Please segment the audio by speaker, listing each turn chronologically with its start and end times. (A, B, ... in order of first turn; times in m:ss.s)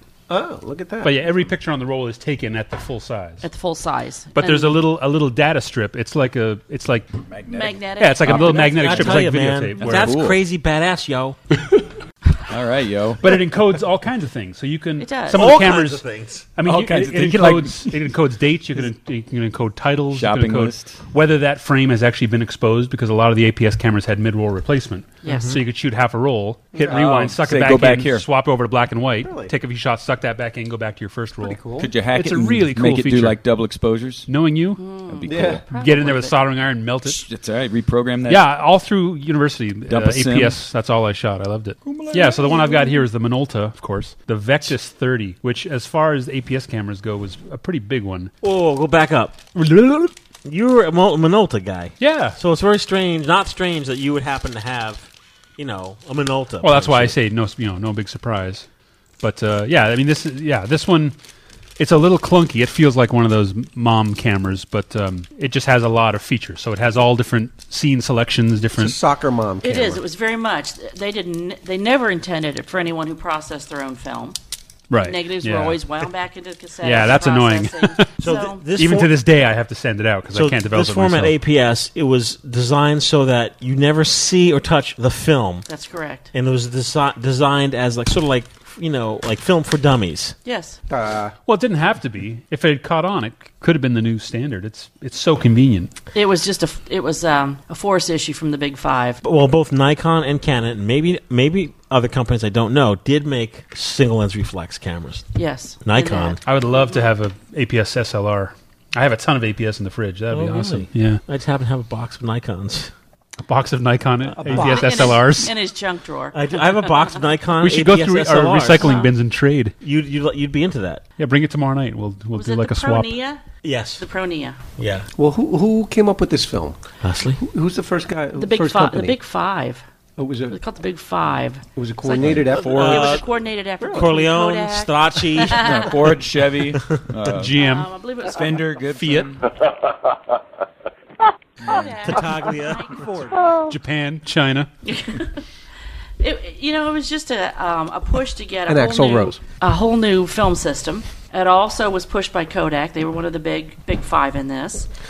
0:00.3-0:01.2 A
0:01.0-0:03.4 B
0:03.4-0:04.8 C
0:04.3-0:07.1 B
0:07.3-0:09.2 D
0:07.5-0:09.2 C
0:08.0-0:10.2 B
0:08.3-0:11.4 E
0:09.8-0:10.4 D
0:12.5-0:13.4 D
0:13.2-0:16.0 B
0:15.0-0:15.5 C
0:15.3-0:16.5 E
0:16.6-0:33.4 B
0:16.6-0:18.0 D
0:20.1-0:21.0 D
0:25.2-0:25.5 C
0:25.2-0:25.6 E
0:26.8-0:28.2 D
0:29.2-0:29.5 A
0:31.4-0:31.9 A
0:31.8-0:34.3 D
0:34.3-0:35.0 B
0:34.8-0:36.4 C
0:35.2-0:35.6 D
0:35.2-0:35.6 A
0:35.7-0:37.2 B
0:37.0-0:38.4 D
0:38.3-0:48.3 B
0:39.9-0:40.6 D
0:41.8-0:43.0 D
0:48.4-0:57.2 E
0:52.0-0:52.4 B
0:56.6-0:58.6 B
0:59.2-1:01.2 B
1:01.8-1:09.0 B
1:08.8-1:10.0 A
1:09.6-1:14.4 C
1:14.9-1:16.0 B
1:15.0-1:18.6 C
1:16.8-1:21.4 B
1:18.2-1:19.1 E
1:20.3-1:25.6 E
1:25.7-1:26.3 C
1:26.3-1:30.3 E
1:30.4-1:30.8 C
1:30.9-1:31.4 A
1:31.4-1:35.9 B
1:36.1-1:39.2 C
1:39.2-1:45.3 E
1:45.3-1:47.1 C
1:45.8-1:46.4 E
1:46.4-1:51.2 B
1:50.3-1:52.9 E
1:53.4-1:55.5 B
1:54.4-1:55.2 A
1:54.5-1:57.2 C
1:56.3-1:58.9 E
1:57.6-1:59.7 B
1:58.8-1:59.1 C
1:59.8-2:01.0 E
2:01.2-2:03.1 B
2:02.3-2:03.4 C
2:03.6-2:04.0 E
2:04.0-2:04.6 C
2:04.8-2:05.1 E
2:05.2-2:06.8 A
2:07.0-2:07.4 E
2:07.4-2:09.2 A
2:08.4-2:09.8 C
2:10.2-2:10.6 A
2:10.5-2:16.0 C
2:11.8-2:13.0 A
2:12.2-2:13.2 D
2:12.6-2:13.2 E
2:13.8-2:14.1 A
2:13.9-2:15.8 E
2:15.5-2:17.5 D
2:17.3-2:17.9 B
2:17.6-2:18.8 C
2:18.2-2:19.4 D
2:18.9-2:19.3 B
2:21.6-2:22.1 D
2:21.6-2:23.5 C
2:21.7-2:23.2 E
2:22.9-2:23.6 A
2:23.7-2:24.7 B
2:24.8-2:25.4 C
2:26.2-2:34.9 C
2:28.7-2:29.4 A